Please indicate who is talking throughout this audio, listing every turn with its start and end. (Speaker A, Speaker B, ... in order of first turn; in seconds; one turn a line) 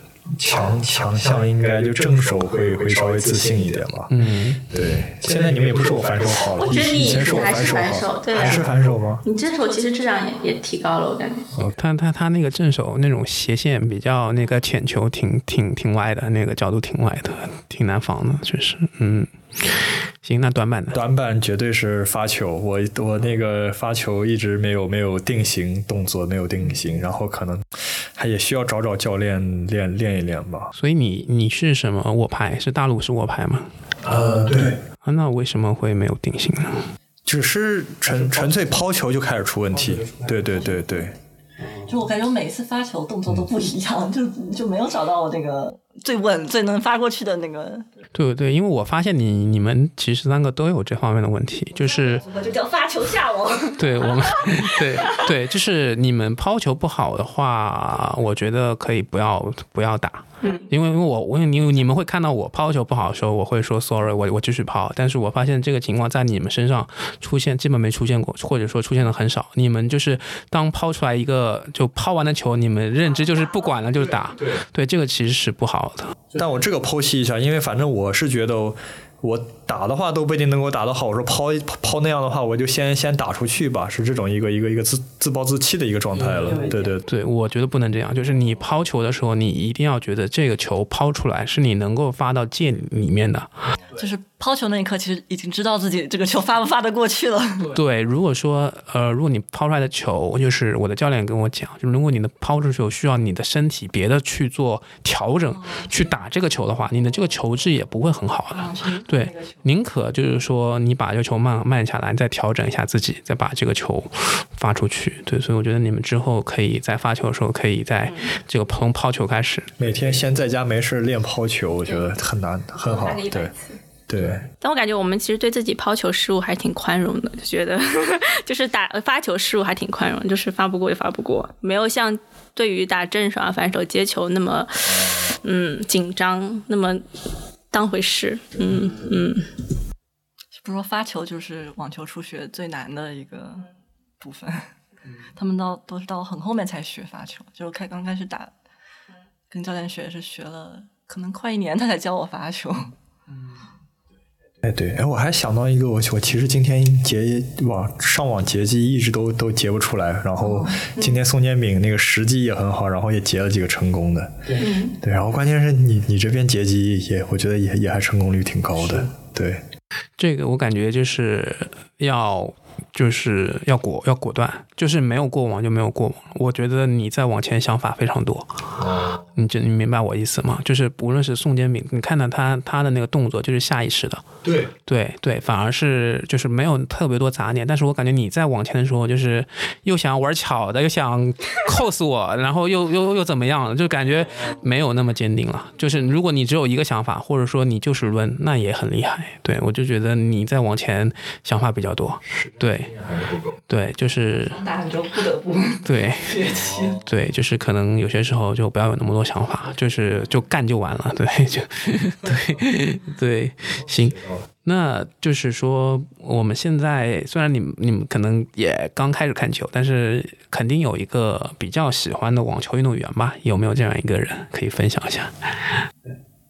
Speaker A: 0.3-4.1
Speaker B: 4.1-4.7
Speaker A: 4.7-9.2
Speaker C: 6.5-11.5
Speaker B: 11.7-21.0
Speaker A: 20.9-30.7
Speaker B: 30.7-33.7
Speaker A: 34.0-34.8
Speaker B: 35.0-36.9
Speaker A: 37.2-41.1
Speaker D: 41.8-47.9
Speaker B: 48.1-52.2
Speaker D: 51.8-54.1
Speaker B: 53.8-76.2
Speaker A: 76.3-87.1
Speaker D: 86.6-86.9
Speaker B: 87.0-93.6
Speaker D: 93.9-97.8
Speaker B: 97.7-119.7
Speaker D: 105.5-105.9
Speaker D: 108.5-109.6
Speaker A: 119.8-123.5
Speaker C: 122.8-123.8
Speaker A: 124.1-124.4
Speaker C: 124.6-137.0
Speaker C: 137.7-139.5
Speaker D: 140.5-143.7
Speaker D: 144.2-144.7
Speaker D: 145.2-148.5
Speaker D: 149.5-152.9
Speaker A: 154.6-169.6
Speaker D: 160.4-160.9
Speaker C: 164.6-164.9
Speaker B: 170.2-178.6
Speaker B: 179.2-184.2
Speaker B: 184.8-204.6
Speaker D: 204.5-207.0
Speaker B: 205.8-206.4
Speaker B: 207.0-225.7